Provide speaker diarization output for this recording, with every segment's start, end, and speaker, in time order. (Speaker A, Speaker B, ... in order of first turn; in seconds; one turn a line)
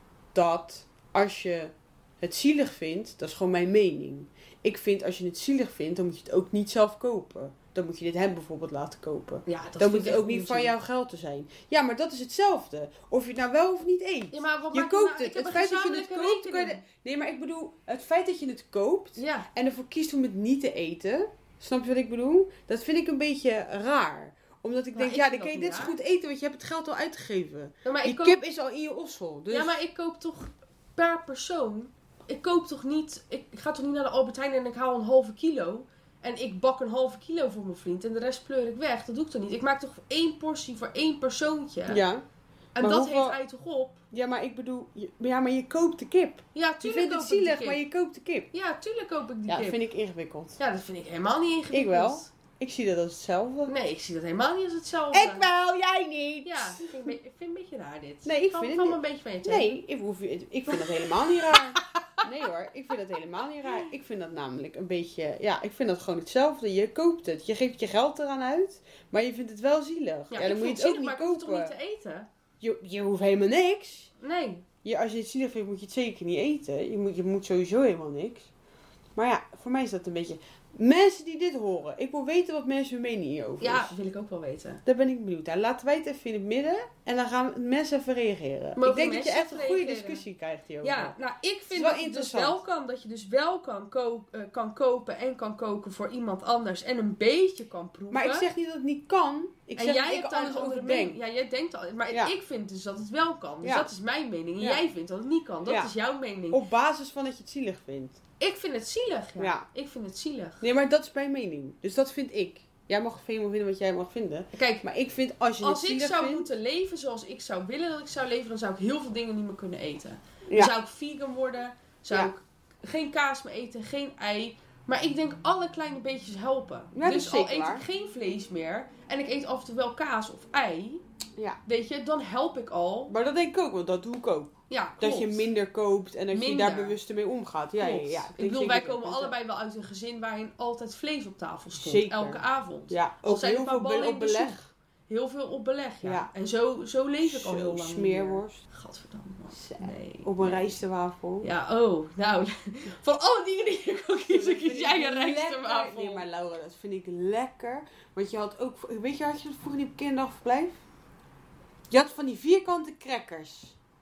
Speaker A: 0.3-29.8
Speaker B: 9.5-10.7
Speaker B: 14.3-16.8
Speaker B: 19.1-19.5
Speaker B: 24.9-26.0
Speaker B: 27.8-28.4
Speaker B: 29.5-42.0
Speaker A: 41.9-42.2
Speaker B: 42.8-44.0
Speaker A: 42.8-43.4
Speaker A: 44.1-48.5
Speaker B: 46.5-47.8
Speaker B: 48.5-49.8
Speaker A: 49.5-50.6
Speaker B: 50.6-52.3
Speaker A: 51.7-53.7
Speaker B: 53.7-55.5
Speaker A: 55.1-57.1
Speaker B: 56.4-59.8
Speaker A: 58.2-71.8
Speaker B: 60.7-62.2
Speaker B: 70.3-72.3
Speaker A: 72.6-74.1
Speaker B: 74.2-74.7
Speaker A: 74.8-78.5
Speaker A: 79.2-83.9
Speaker B: 83.6-84.8
Speaker A: 84.8-91.1
Speaker B: 88.8-90.2
Speaker B: 90.8-98.5
Speaker A: 91.7-92.6
Speaker A: 98.1-101.2
Speaker B: 99.8-106.6
Speaker A: 103.6-103.9
Speaker A: 106.5-108.2
Speaker B: 108.4-110.6
Speaker A: 109.4-109.7
Speaker A: 110.6-116.5
Speaker B: 114.5-114.8
Speaker B: 115.6-131.0
Speaker A: 126.9-127.8
Speaker B: 131.7-133.1
Speaker A: 133.1-139.3
Speaker B: 134.7-135.5
Speaker B: 136.3-137.0
Speaker B: 137.8-150.8
Speaker A: 141.7-144.7
Speaker A: 146.0-146.3
Speaker A: 147.2-148.6
Speaker A: 149.5-151.5
Speaker B: 151.4-156.2
Speaker A: 154.3-160.8
Speaker A: 161.9-163.8